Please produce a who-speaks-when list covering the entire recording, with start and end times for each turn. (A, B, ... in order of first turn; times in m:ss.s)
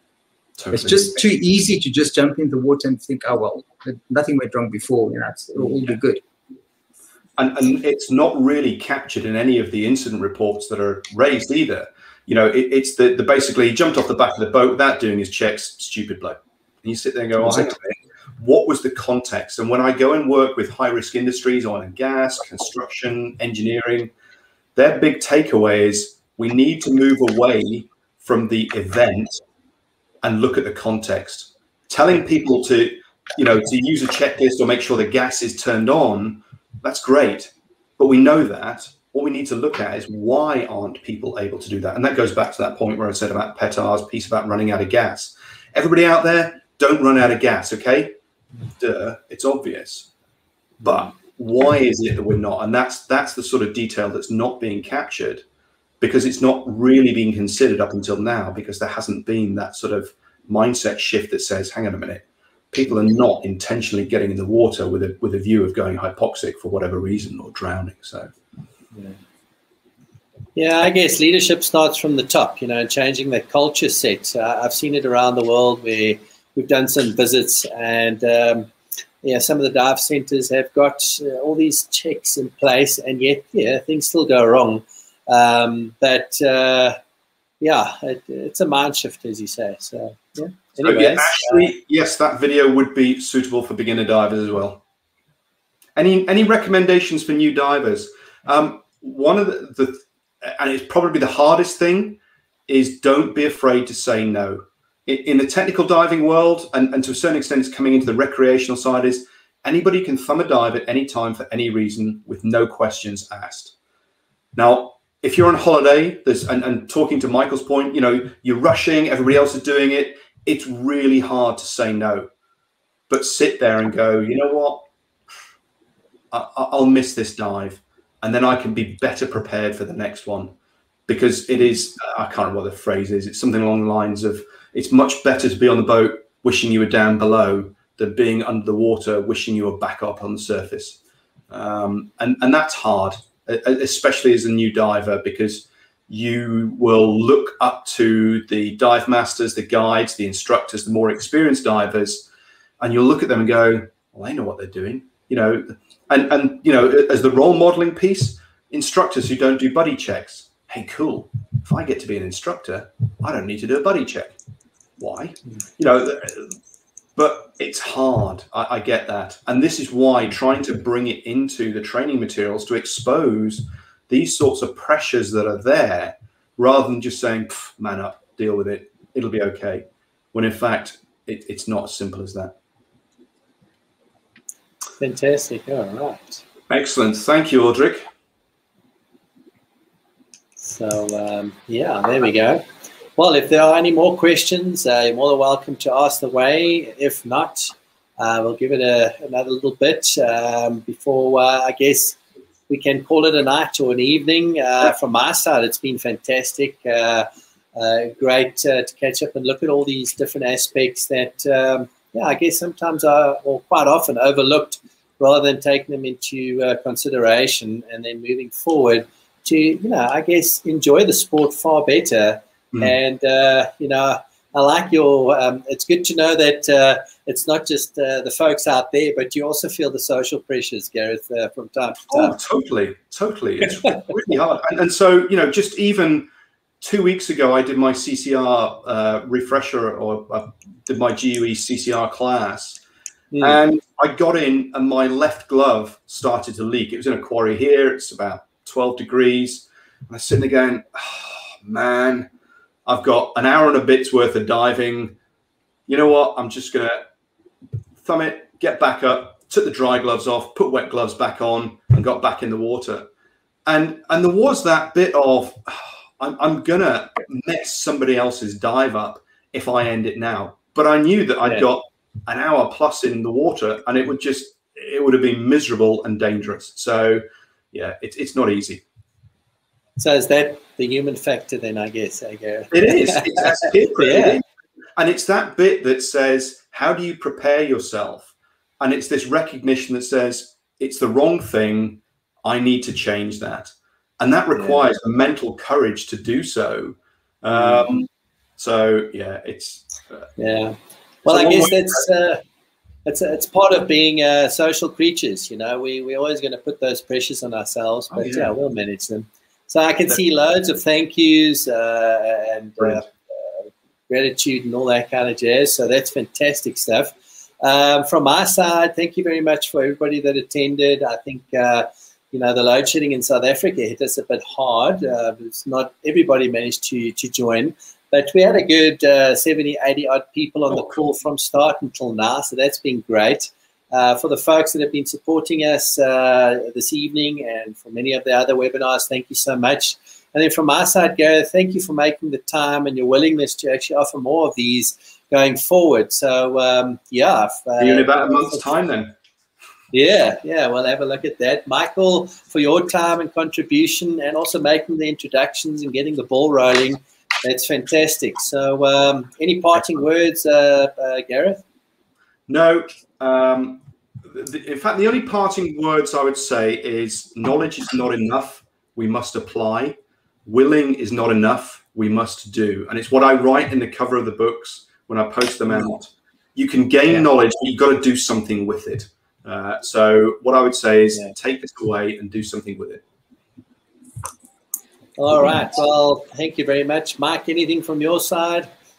0:00.6-0:01.3 A
0:00.7-0:06.2 B
0:07.4-0:24.1 A
0:24.8-0:29.4 A
0:30.2-0:48.2 A
0:48.8-0:50.1 A
0:50.8-0:55.4 A
0:56.0-1:08.3 A
1:10.6-1:18.7 C
1:19.2-1:27.0 C
1:27.6-1:31.7 C
1:30.8-1:34.8 A
1:36.0-1:53.7 A
1:54.6-2:02.3 A
2:03.1-2:04.9 A
2:06.3-2:10.5 A
2:11.1-2:21.0 A
2:21.5-2:32.3 A
2:32.8-2:44.3 A
2:45.0-2:46.6 A
2:47.2-3:02.6 A
3:05.0-3:06.4 C
3:06.7-3:08.1 A
3:10.6-3:12.6 C
3:13.2-3:22.2 C
3:22.7-3:52.4 C
3:52.1-3:56.3 A
3:56.8-4:02.8 A
4:03.3-4:03.6 C
4:03.4-4:12.3 A
4:12.9-4:15.2 A
4:15.9-4:17.1 A
4:18.0-4:23.1 A
4:23.7-4:38.8 A
4:40.0-4:44.4 C
4:42.7-4:44.4 A
4:45.0-5:00.3 A
4:54.6-4:54.8 C
4:57.5-4:57.9 C
5:00.4-5:02.4 C
5:01.2-5:02.0 A
5:03.0-5:48.7 C
5:08.1-5:08.5 A
5:47.8-5:49.2 A
5:49.9-6:01.6 C
6:02.5-6:23.0 A
6:25.2-6:28.7 C